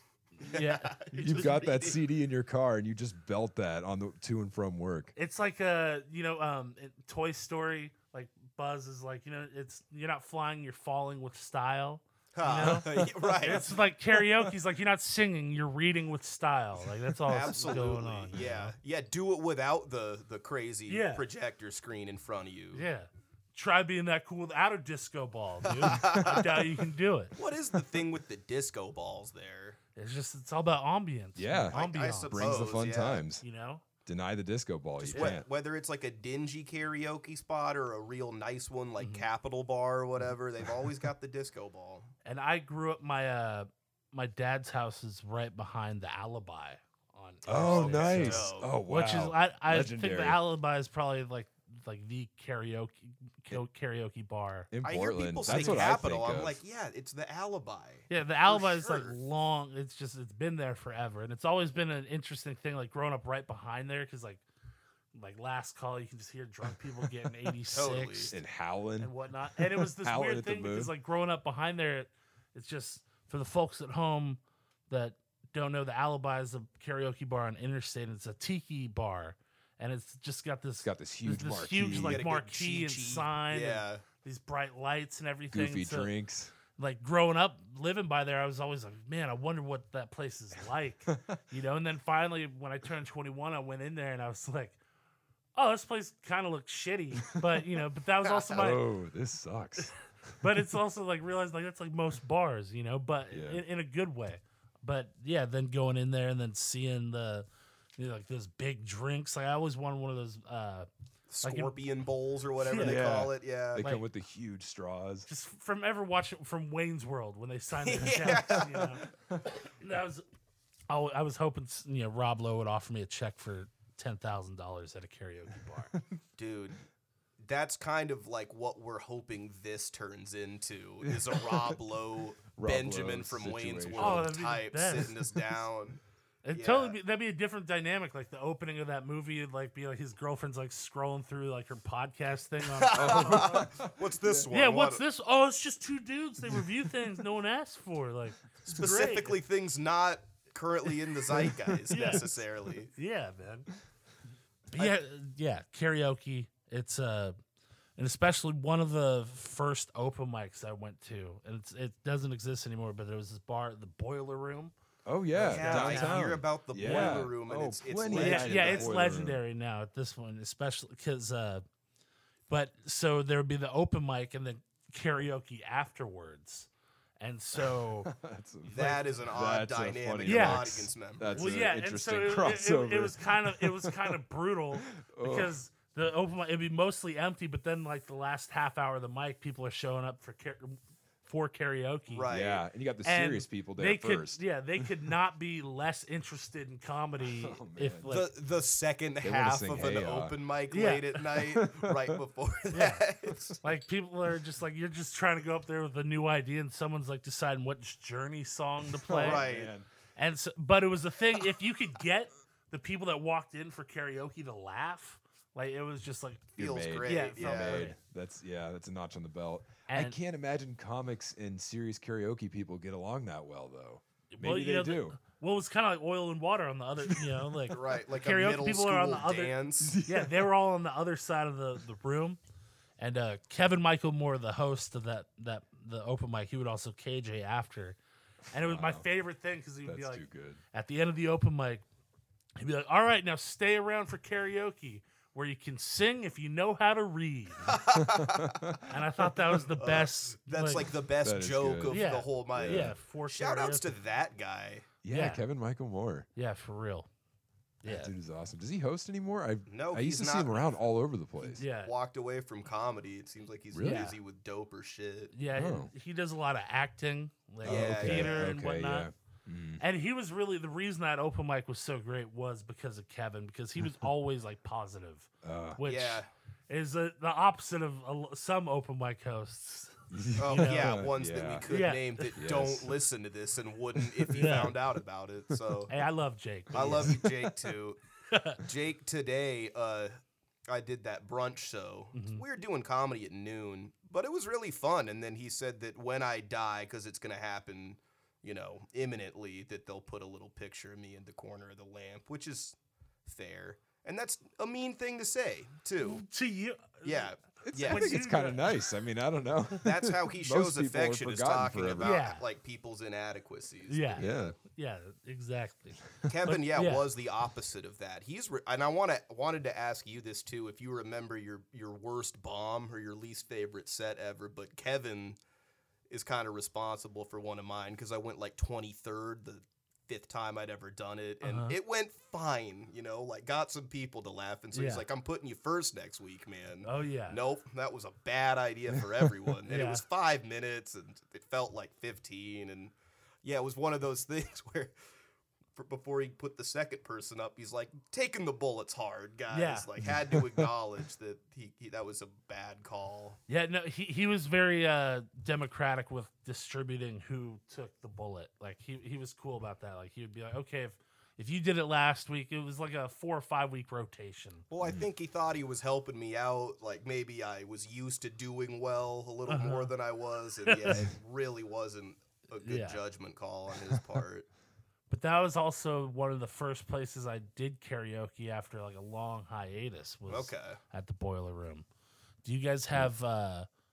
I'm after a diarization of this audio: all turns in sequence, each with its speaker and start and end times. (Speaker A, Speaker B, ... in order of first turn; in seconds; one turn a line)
Speaker A: 0.4-1.5
Speaker B: 0.4-2.0
Speaker C: 1.1-5.1
Speaker A: 5.2-18.7
Speaker B: 12.3-13.7
Speaker C: 12.7-13.6
Speaker B: 17.3-22.9
Speaker A: 20.9-21.3
Speaker A: 22.7-27.4
Speaker B: 25.6-26.7
Speaker B: 27.4-29.8
Speaker A: 30.0-32.7
Speaker C: 31.4-33.4
Speaker B: 31.7-33.2
Speaker A: 33.4-33.8
Speaker C: 34.1-35.5
Speaker B: 35.0-42.1
Speaker A: 39.0-39.3
Speaker A: 42.2-54.7
Speaker C: 47.5-50.4
Speaker B: 47.5-48.7
Speaker C: 54.7-56.6
Speaker B: 54.8-59.2
Speaker A: 55.5-55.9
Speaker A: 58.1-64.4
Speaker A: 65.1-68.4
Speaker B: 67.7-68.3
Speaker C: 68.3-70.9
Speaker A: 69.0-86.1
Speaker C: 80.8-82.2
Speaker B: 81.9-84.0
Speaker C: 85.5-86.5
Speaker A: 86.8-94.8
Speaker C: 91.1-91.4
Speaker A: 95.6-98.8
Speaker B: 98.2-98.7
Speaker C: 98.5-99.9
Speaker A: 100.4-107.5
Speaker C: 103.3-103.6
Speaker A: 108.0-110.9
Speaker B: 111.3-113.8
Speaker A: 111.4-111.7
Speaker A: 112.6-113.0
Speaker C: 112.8-115.3
Speaker A: 115.3-119.1
Speaker B: 117.8-119.0
Speaker A: 119.7-120.2
Speaker A: 120.9-125.9
Speaker B: 126.4-126.8
Speaker B: 127.4-136.0
Speaker C: 131.1-131.7
Speaker C: 132.6-134.3
Speaker A: 134.0-135.2
Speaker A: 136.4-143.7
Speaker B: 136.5-137.0
Speaker B: 142.6-145.0
Speaker C: 142.9-144.4
Speaker A: 144.5-149.4
Speaker B: 148.7-152.9
Speaker A: 151.9-152.4
Speaker A: 152.9-153.7
Speaker A: 154.7-157.4
Speaker A: 158.0-164.7
Speaker C: 165.1-169.4
Speaker B: 165.4-169.1
Speaker A: 165.4-166.3
Speaker A: 166.8-167.2
Speaker A: 168.1-171.6
Speaker A: 172.5-176.7
Speaker A: 177.2-178.1
Speaker C: 177.6-184.2
Speaker B: 178.7-181.5
Speaker A: 180.2-192.3
Speaker C: 184.9-185.5
Speaker B: 192.1-192.6
Speaker C: 192.3-194.4
Speaker A: 193.0-198.3
Speaker C: 197.3-198.1
Speaker B: 198.1-203.6
Speaker C: 199.2-200.3
Speaker A: 200.7-201.2
Speaker C: 201.4-202.2
Speaker A: 202.7-203.1
Speaker A: 203.6-209.5
Speaker C: 209.1-209.9
Speaker B: 209.2-209.7
Speaker A: 210.2-216.5
Speaker B: 216.6-217.9
Speaker C: 216.6-225.2
Speaker A: 217.0-217.9
Speaker A: 219.9-220.2
Speaker A: 224.3-232.4
Speaker C: 227.1-227.5
Speaker B: 227.7-230.0
Speaker C: 229.8-230.5
Speaker A: 233.0-238.0
Speaker C: 238.5-239.1
Speaker A: 238.5-241.8
Speaker C: 239.9-240.6
Speaker A: 242.6-247.8
Speaker B: 247.7-248.5
Speaker C: 247.9-248.9
Speaker A: 248.9-250.9
Speaker B: 249.8-254.9
Speaker C: 251.2-252.0
Speaker A: 251.9-253.9
Speaker C: 252.6-252.9
Speaker C: 255.0-256.3
Speaker A: 255.1-255.4
Speaker A: 256.4-257.1
Speaker A: 257.8-258.1
Speaker C: 257.9-261.6
Speaker B: 259.7-260.8
Speaker A: 261.6-261.9
Speaker B: 261.6-265.3
Speaker C: 263.7-264.0
Speaker A: 263.8-264.2
Speaker A: 265.3-269.1
Speaker C: 265.5-265.9
Speaker C: 267.6-269.8
Speaker B: 267.6-268.5
Speaker A: 269.8-281.0
Speaker C: 275.4-275.8
Speaker B: 275.8-276.3
Speaker C: 280.1-281.7
Speaker B: 280.4-285.9
Speaker A: 281.7-282.3
Speaker C: 282.4-282.9
Speaker C: 284.0-284.6
Speaker A: 284.4-284.8
Speaker A: 285.9-287.2
Speaker B: 286.7-288.0
Speaker C: 286.8-287.5
Speaker A: 288.3-288.6
Speaker B: 288.6-290.1
Speaker B: 290.7-306.2
Speaker A: 292.1-292.4
Speaker A: 306.0-308.9
Speaker B: 307.0-308.2
Speaker C: 307.7-312.2
Speaker B: 309.8-314.6
Speaker A: 312.0-312.4
Speaker A: 313.9-317.1
Speaker C: 314.2-314.6
Speaker B: 316.3-325.4
Speaker B: 326.1-344.9
Speaker A: 331.4-331.8
Speaker A: 334.7-335.1
Speaker A: 336.8-337.4
Speaker A: 339.7-340.0
Speaker B: 345.8-353.4
Speaker A: 349.5-349.9
Speaker C: 350.0-350.7
Speaker A: 353.5-364.7
Speaker B: 364.7-374.5
Speaker A: 369.5-369.9
Speaker A: 370.7-371.1
Speaker A: 372.6-373.0
Speaker A: 375.1-381.9
Speaker B: 380.3-380.8
Speaker A: 382.4-383.7